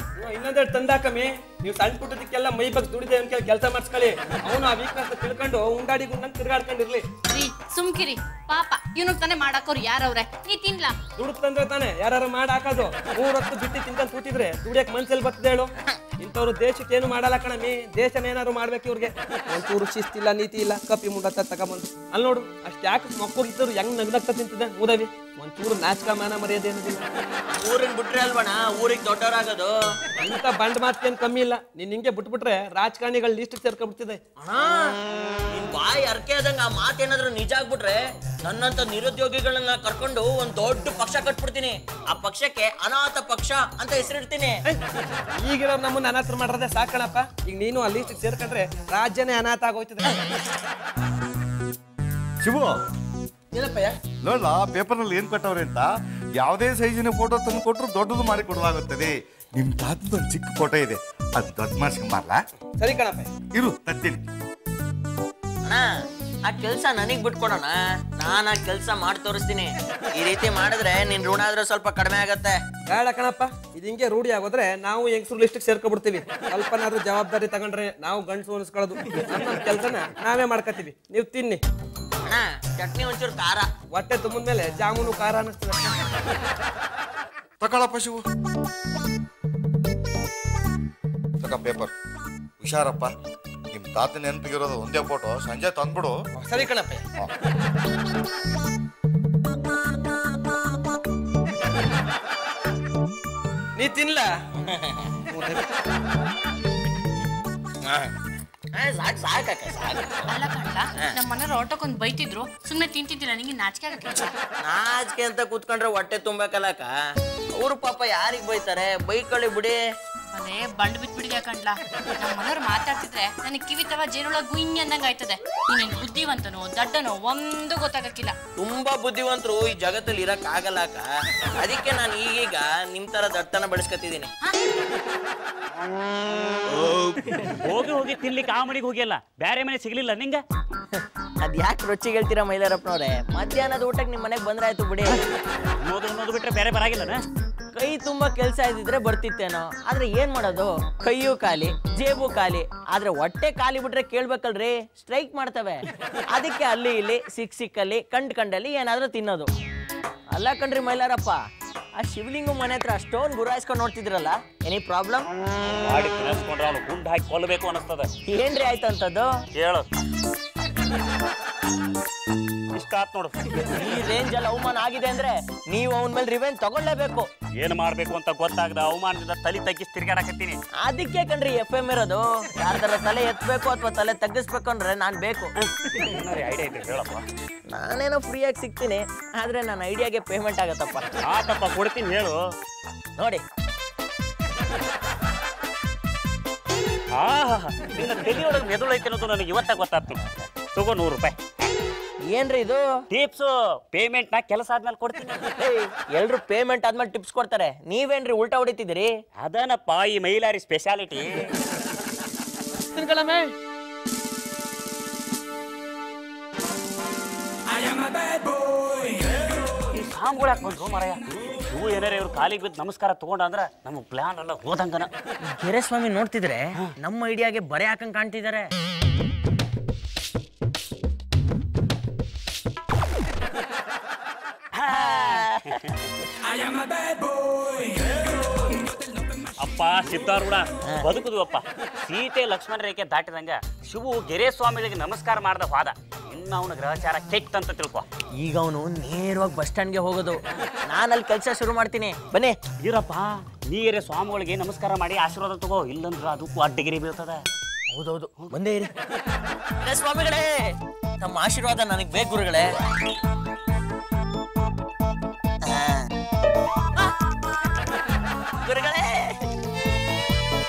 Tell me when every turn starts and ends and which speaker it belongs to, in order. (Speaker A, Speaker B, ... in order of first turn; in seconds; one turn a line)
Speaker A: 0.2-7.0
Speaker B: 7.3-10.9
Speaker A: 11.2-27.0
Speaker C: 27.5-29.7
Speaker A: 30.2-34.2
Speaker C: 34.4-34.9
Speaker C: 35.5-44.6
Speaker A: 45.4-50.1
Speaker D: 52.4-52.8
Speaker A: 53.5-54.0
Speaker D: 54.2-62.4
Speaker A: 62.8-63.3
Speaker D: 63.5-64.2
Speaker C: 66.4-72.6
Speaker A: 72.9-81.6
Speaker C: 82.2-83.7
Speaker A: 83.9-86.0
Speaker D: 87.6-88.2
Speaker D: 91.4-91.9
Speaker D: 92.6-93.1
Speaker D: 93.7-96.1
Speaker A: 96.4-97.0
Speaker A: 103.8-104.4
Speaker C: 104.7-105.0
Speaker A: 105.3-105.6
Speaker C: 107.8-108.1
Speaker C: 108.7-110.3
Speaker B: 110.3-114.3
Speaker C: 114.6-116.9
Speaker C: 117.5-119.8
Speaker B: 120.3-128.3
Speaker C: 128.6-131.1
Speaker C: 131.6-134.3
Speaker E: 137.6-140.4
Speaker C: 140.9-145.2
Speaker E: 145.8-147.2
Speaker C: 147.7-159.5
Speaker C: 160.3-161.4
Speaker C: 162.0-165.3
Speaker E: 165.7-168.1
Speaker C: 168.3-169.3
Speaker E: 169.5-169.9
Speaker E: 172.7-173.6
Speaker C: 173.7-177.3
Speaker E: 177.6-180.6
Speaker C: 180.8-185.5
Speaker E: 185.6-187.2
Speaker C: 187.7-191.1
Speaker E: 191.2-192.4
Speaker E: 197.1-200.2
Speaker E: 200.7-201.3
Speaker C: 202.2-202.8
Speaker E: 203.1-205.4
Speaker C: 205.6-209.1
Speaker E: 209.4-211.3
Speaker A: 212.9-213.5
Speaker E: 219.9-225.1
Speaker C: 225.5-228.7
Speaker C: 234.9-235.8
Speaker E: 234.9-235.8
Speaker E: 239.6-248.0
Speaker C: 248.4-252.6
Speaker E: 252.8-257.4
Speaker C: 257.9-258.9
Speaker C: 259.8-262.7
Speaker C: 265.6-266.1
Speaker C: 268.6-269.4